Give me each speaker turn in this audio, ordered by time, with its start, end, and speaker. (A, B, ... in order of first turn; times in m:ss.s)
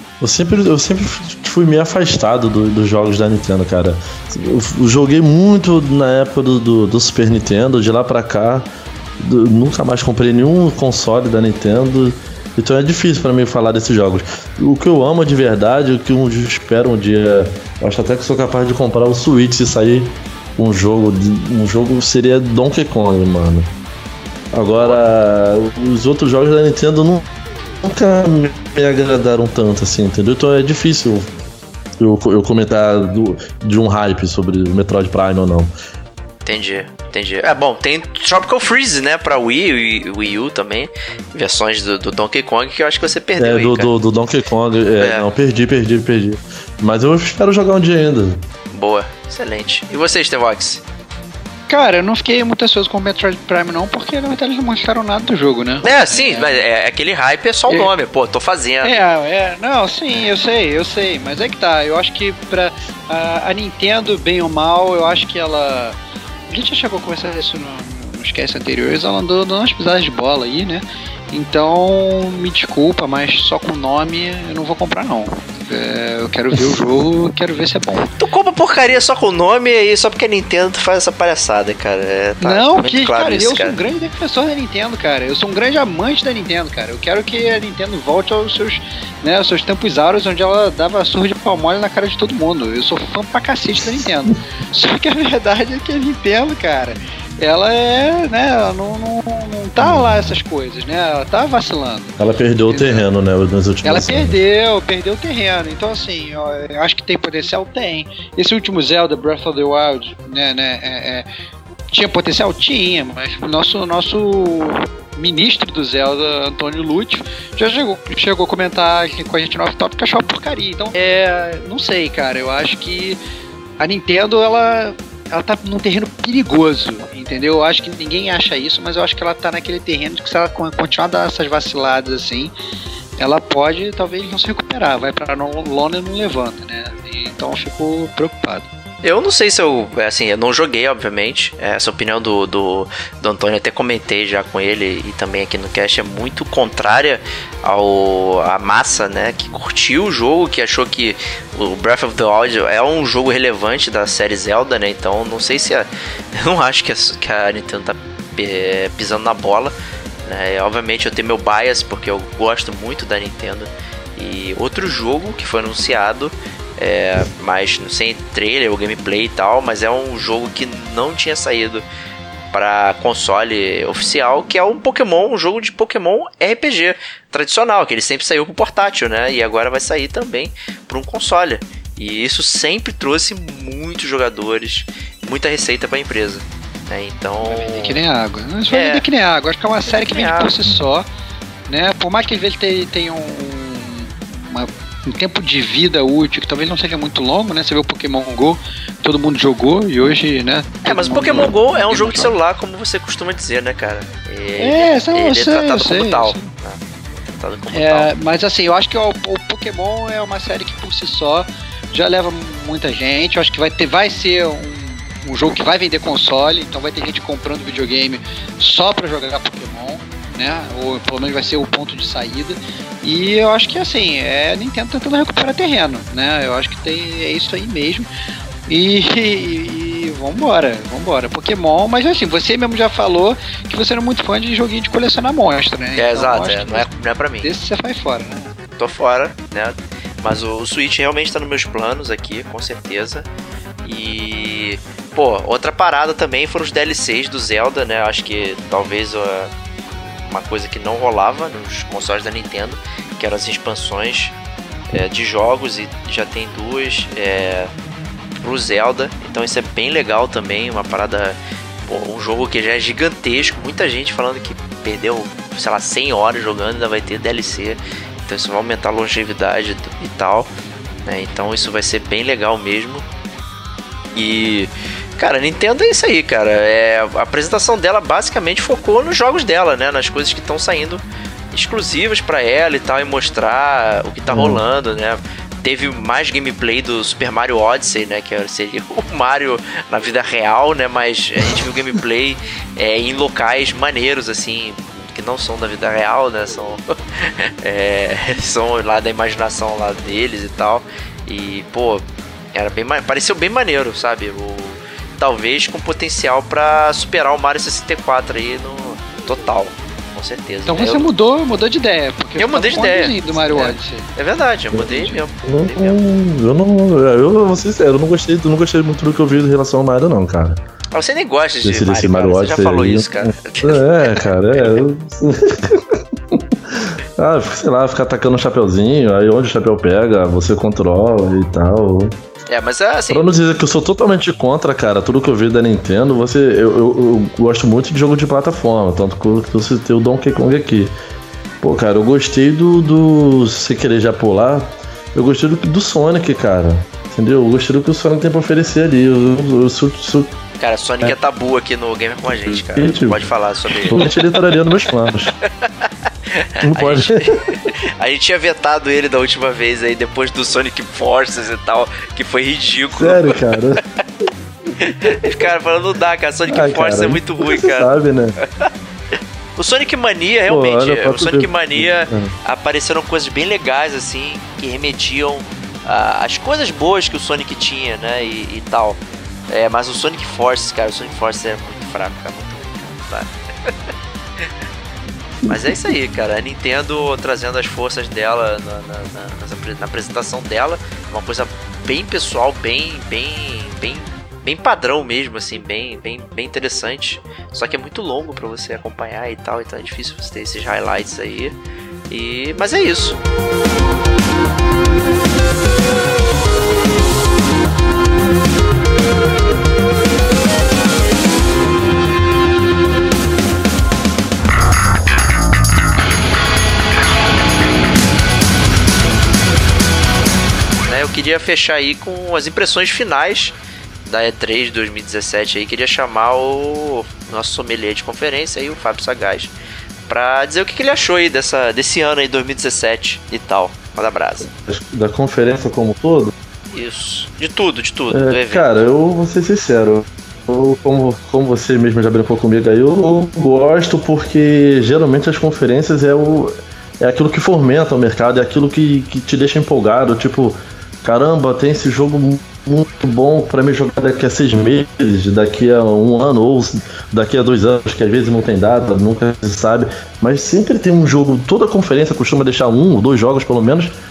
0:00.2-0:23.7 A
0:24.5-0:27.3 A
0:24.8-0:25.0 B
0:27.8-0:31.3 A
0:32.0-0:35.7 A
0:36.4-0:43.9 B
0:43.4-0:48.4 A
0:45.0-0:45.3 B
0:48.7-0:50.8 B
0:51.7-0:56.6 C
0:55.8-0:59.0 B
0:58.8-1:06.0 C
1:06.5-1:18.1 C
1:18.1-1:23.8 B
1:22.4-1:43.1 C
1:39.8-1:40.3 A
1:42.2-1:44.4 A
1:43.8-1:51.3 C
1:51.9-2:03.2 C
2:03.8-2:12.5 C
2:13.2-2:18.7 C
2:19.0-2:39.7 B
2:40.3-2:51.8 B
2:52.5-3:08.0 B
3:07.4-3:11.1 C
3:08.7-3:09.0 B
3:09.8-3:10.5 B
3:11.7-3:22.4 C
3:20.8-3:26.8 B
3:24.6-3:26.5 C
3:27.4-3:28.1 B
3:27.7-3:48.1 C
3:48.7-3:58.5 C
3:56.0-3:57.5 B
3:58.8-4:03.3 B
4:03.8-4:09.5 B
4:10.1-4:14.4 B
4:14.9-4:17.7 B
4:18.4-4:30.5 B
4:31.1-4:33.0 B
4:34.2-5:11.1 B
4:44.3-4:44.6 A
5:10.7-5:14.1 C
5:12.4-5:16.0 B
5:14.7-5:20.6 A
5:20.9-5:24.8 B
5:21.6-5:32.2 A
5:32.5-5:33.3 B
5:33.1-5:40.9 A
5:41.6-5:50.4 A
5:50.6-5:54.1 B
5:52.5-5:53.3 A
5:53.8-5:55.3 A
5:56.3-6:03.4 B
5:56.6-5:57.4 A
6:03.0-6:03.8 A
6:04.8-6:08.7 B
6:06.5-6:08.4 A
6:09.6-6:19.0 B
6:10.5-6:12.3 A
6:19.5-6:23.7 B
6:25.4-6:25.8 A
6:25.5-6:41.6 B
6:42.1-6:43.2 B
7:00.9-7:09.5 B
7:10.1-7:14.5 B
7:14.5-7:16.3 A
7:16.7-7:18.8 B
7:18.1-7:44.0 A